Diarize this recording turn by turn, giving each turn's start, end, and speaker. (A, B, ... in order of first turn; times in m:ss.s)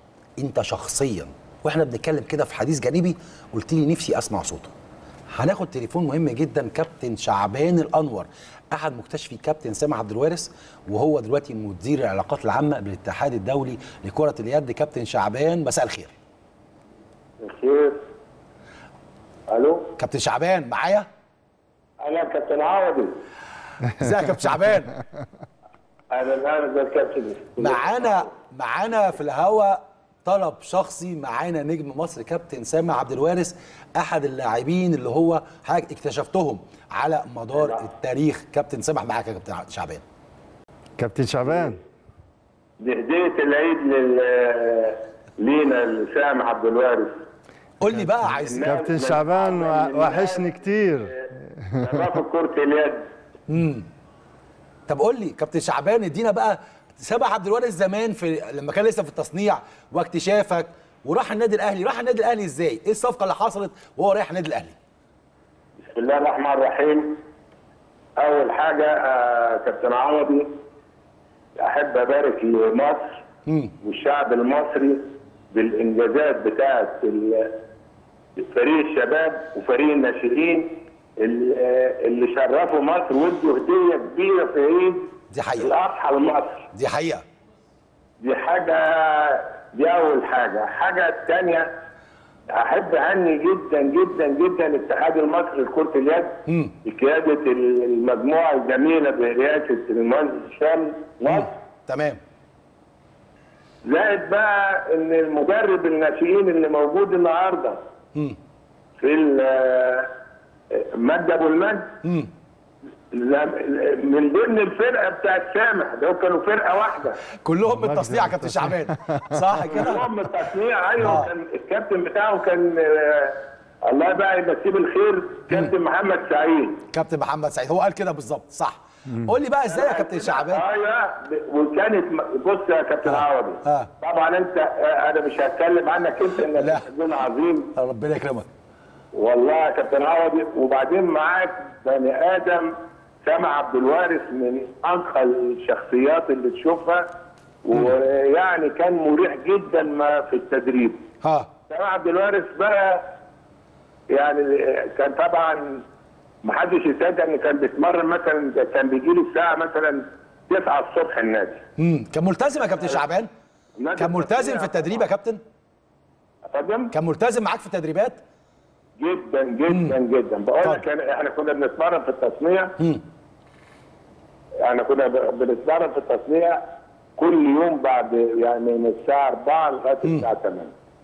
0:00.4-0:04.7 A
0:05.3-0:16.1 A
0:17.4-0:18.0 B
0:19.5-0:19.9 B
0:20.0-0:21.1 A
0:22.0-0:23.1 B
0:24.0-0:24.9 A
0:26.1-0:28.3 B
0:27.6-0:40.0 A
0:37.6-0:37.8 B
0:41.0-0:41.8 C
0:42.8-0:47.1 B
0:47.8-0:48.7 A
0:48.4-0:53.0 B
0:48.6-0:52.0 C
0:53.5-0:53.9 A
0:54.9-1:04.8 A
1:05.8-1:07.2 B
1:08.2-1:10.5 B
1:11.6-1:13.2 B
1:13.5-1:13.7 A
1:13.8-1:17.6 B
1:18.4-1:26.7 B
1:25.3-1:25.7 A
1:26.7-1:27.2 A
1:28.2-1:31.7 B
1:32.5-1:41.6 B
1:36.5-1:36.7 A
1:41.3-1:42.2 A
1:43.8-1:47.8 B
1:49.0-1:50.1 B
1:50.7-1:51.9 B
1:52.0-1:52.3 A
1:53.1-1:57.2 B
1:57.4-2:00.0 A
1:57.6-1:59.8 C
1:59.7-2:06.8 B
2:01.0-2:01.3 A
2:06.9-2:10.6 A
2:09.7-2:17.7 B
2:13.1-2:13.9 A
2:16.5-2:16.9 A
2:17.8-2:18.5 A
2:19.1-2:22.7 B
2:23.2-2:27.1 B
2:27.6-2:31.0 B
2:31.2-2:31.5 A
2:31.7-2:33.0 B
2:34.1-2:35.8 B
2:36.4-2:41.6 B
2:41.8-2:43.3 A
2:43.8-2:45.0 B
2:44.0-2:45.4 A
2:46.5-2:46.9 B
2:46.9-2:48.2 A
2:49.0-2:52.8 B
2:49.7-2:50.0 A
2:54.6-2:56.6 B
2:57.2-3:00.7 B